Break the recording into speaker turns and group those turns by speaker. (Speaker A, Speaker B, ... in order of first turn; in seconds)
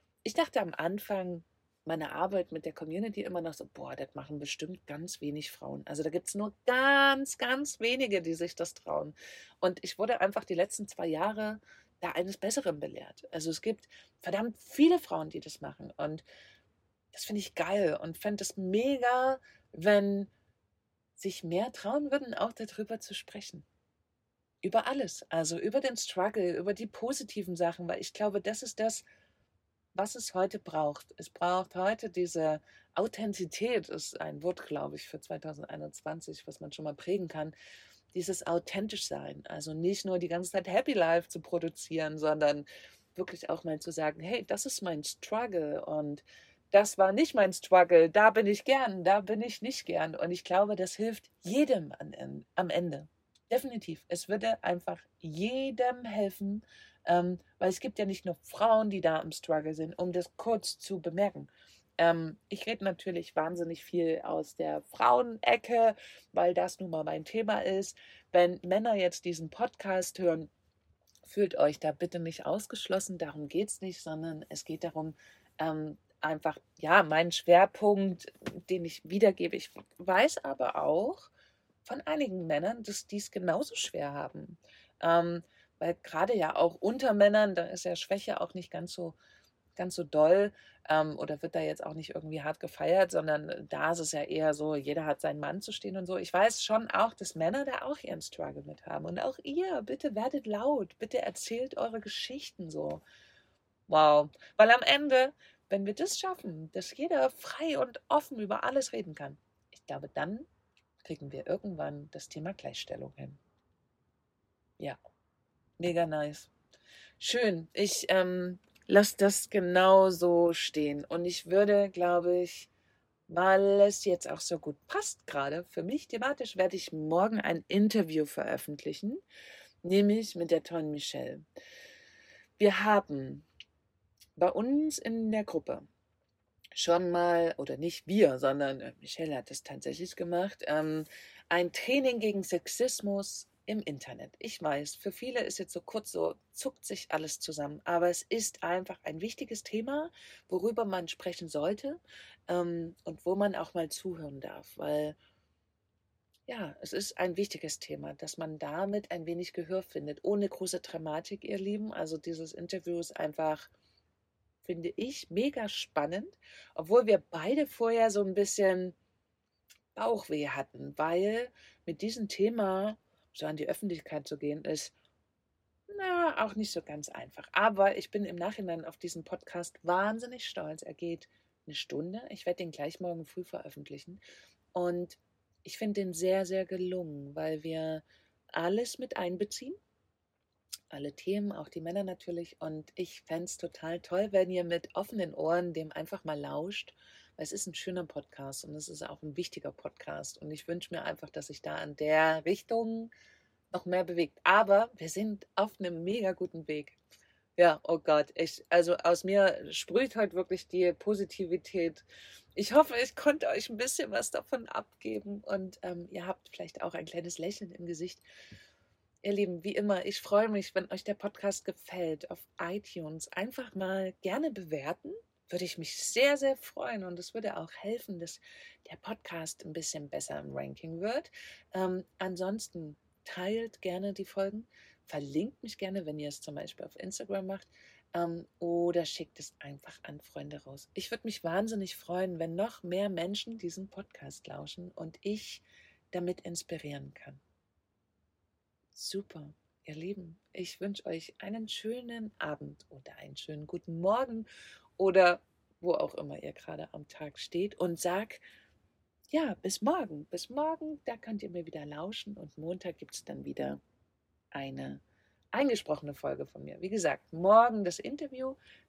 Speaker A: 0.2-16.2, 17.1-20.3, 21.1-23.6, 24.6-29.0, 29.9-37.5, 38.1-70.5, 71.2-81.3, 81.8-89.2, 89.8-103.0, 103.9-110.5, 111.0-113.4, 115.8-116.5, 117.2-122.7, 123.3-129.2, 129.8-131.4, 132.6-133.4, 134.3-135.8, 136.7-155.2, 156.5-163.7, 164.6-168.9, 169.9-174.9, 175.9-184.2, 184.7-189.8, 190.9-203.1, 203.7-207.0, 207.6-218.2, 219.2-247.4, 248.9-254.5, 255.0-258.4, 259.3-263.8, 264.5-265.0, 265.5-268.6